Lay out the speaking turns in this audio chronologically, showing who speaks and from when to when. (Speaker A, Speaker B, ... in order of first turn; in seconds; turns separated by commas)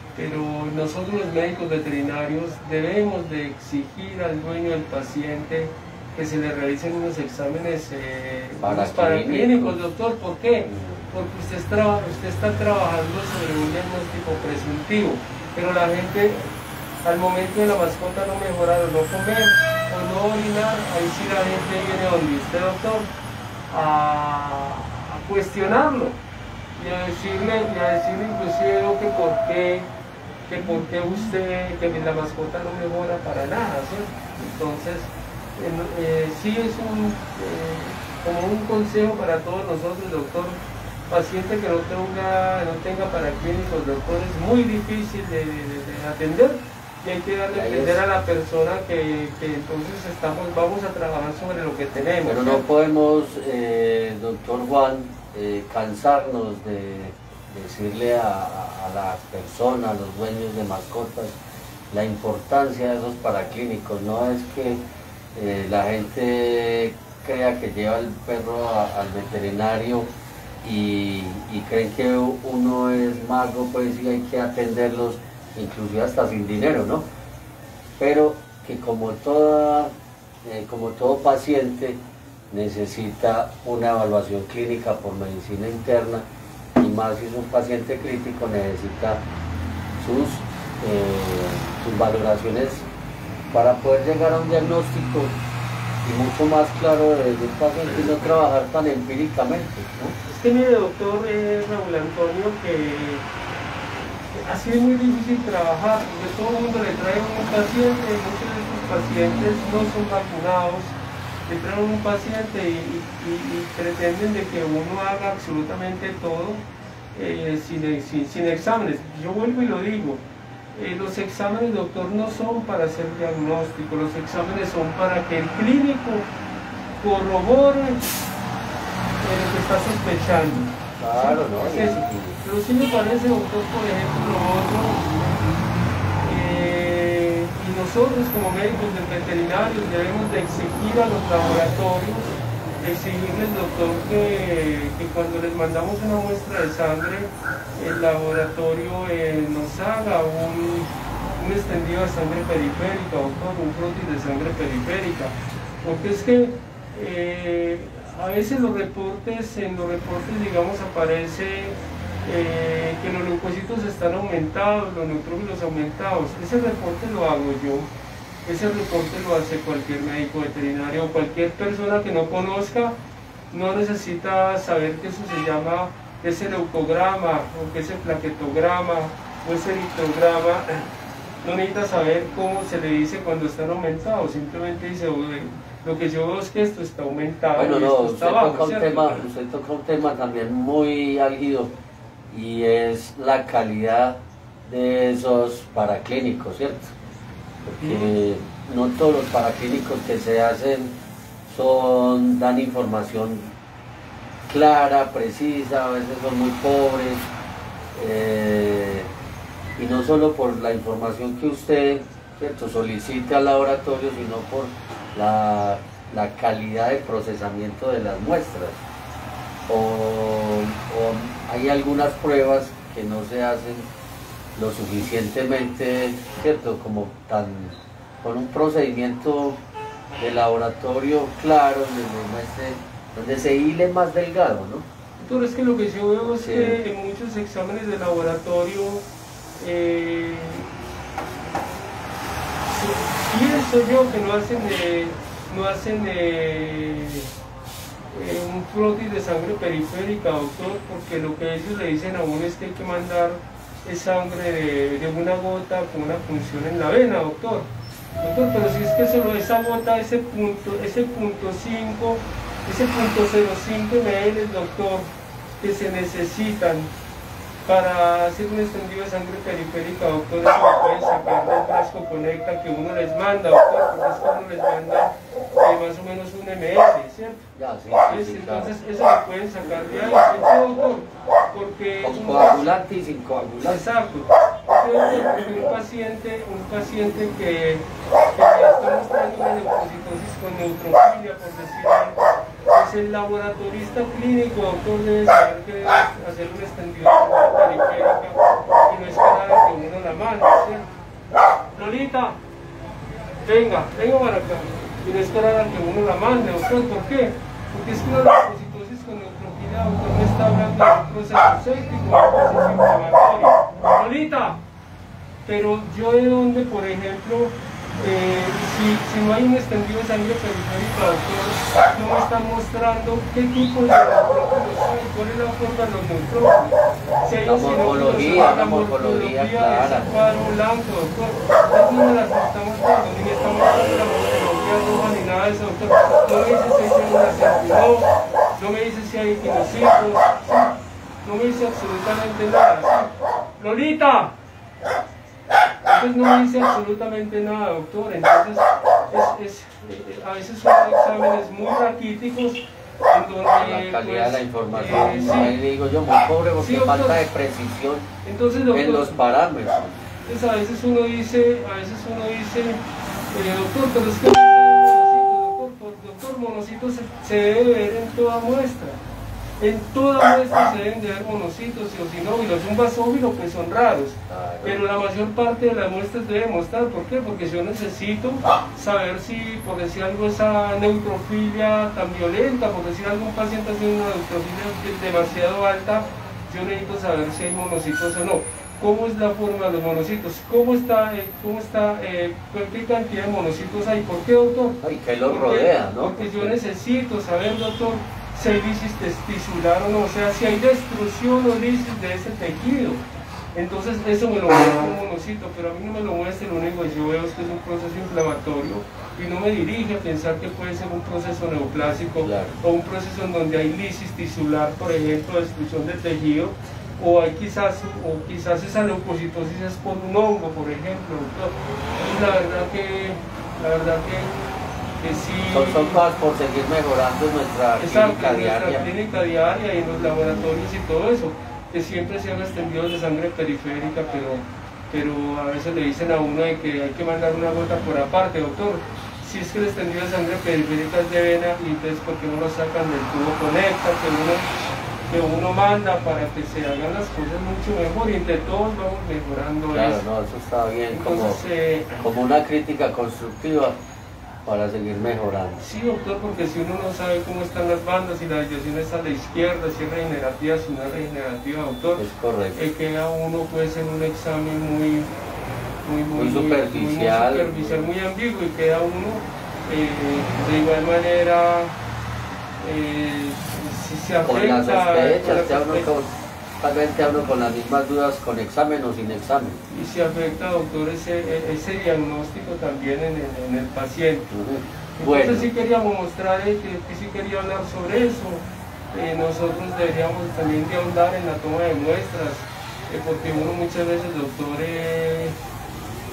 Speaker A: 0.1-16.5, Speaker B: 8.6-9.8, Speaker B: 10.7-11.1, Speaker A: 17.0-23.1, Speaker A: 23.7-26.2, Speaker A: 26.8-29.9, Speaker A: 30.5-40.6, Speaker A: 41.1-52.6, Speaker B: 47.5-48.0, Speaker B: 52.3-61.4, Speaker B: 61.9-77.1, Speaker B: 78.0-79.9, Speaker B: 80.4-89.2, Speaker B: 90.0-92.9, Speaker B: 93.5-95.4, Speaker B: 96.0-100.2, Speaker A: 100.2-103.3, Speaker A: 104.3-111.0, Speaker A: 111.5-126.3, Speaker A: 127.0-128.1, Speaker A: 129.2-135.1, Speaker B: 131.0-132.4, Speaker A: 136.2-167.9, Speaker A: 168.4-173.0, Speaker A: 173.5-180.9, Speaker A: 181.4-189.3, Speaker B: 187.6-191.8, Speaker B: 192.3-196.9, Speaker B: 197.6-203.5, Speaker A: 197.8-198.1, Speaker B: 204.5-207.3, Speaker B: 207.9-209.1, Speaker B: 209.8-218.8, Speaker B: 219.7-223.9, Speaker B: 224.6-229.6, Speaker B: 230.2-234.9, Speaker A: 235.2-239.1, Speaker B: 236.2-236.8, Speaker A: 239.6-240.7, Speaker A: 242.7-247.3, Speaker A: 248.1-257.7, Speaker A: 258.2-266.9, Speaker A: 267.6-277.5, Speaker B: 277.6-278.7, Speaker A: 278.1-282.8, Speaker B: 282.0-283.8, Speaker A: 283.6-300.9, Speaker A: 301.8-302.4, Speaker A: 303.4-314.6, Speaker A: 315.4-344.4, Speaker B: 327.4-330.1, Speaker A: 345.9-355.6, Speaker B: 353.6-358.1, Speaker A: 356.6-357.2, Speaker A: 358.2-359.2, Speaker B: 358.7-360.1, Speaker A: 360.2-369.0, Speaker A: 369.6-403.0, Speaker B: 374.3-374.8, Speaker B: 394.8-396.6, Speaker A: 403.6-424.4, Speaker B: 412.2-412.6, Speaker A: 425.0-426.0, Speaker B: 425.5-428.9, Speaker A: 427.8-444.5, Speaker A: 445.1-450.0, Speaker B: 449.7-451.4, Speaker A: 450.9-452.1, Speaker B: 452.0-453.8, Speaker B: 454.4-455.6, Speaker A: 455.6-465.1, Speaker B: 462.0-462.6, Speaker A: 465.9-471.8, Speaker B: 466.2-467.9, Speaker A: 472.6-475.9, Speaker B: 474.2-479.6, Speaker A: 479.7-484.3, Speaker B: 484.3-485.5, Speaker A: 485.0-495.4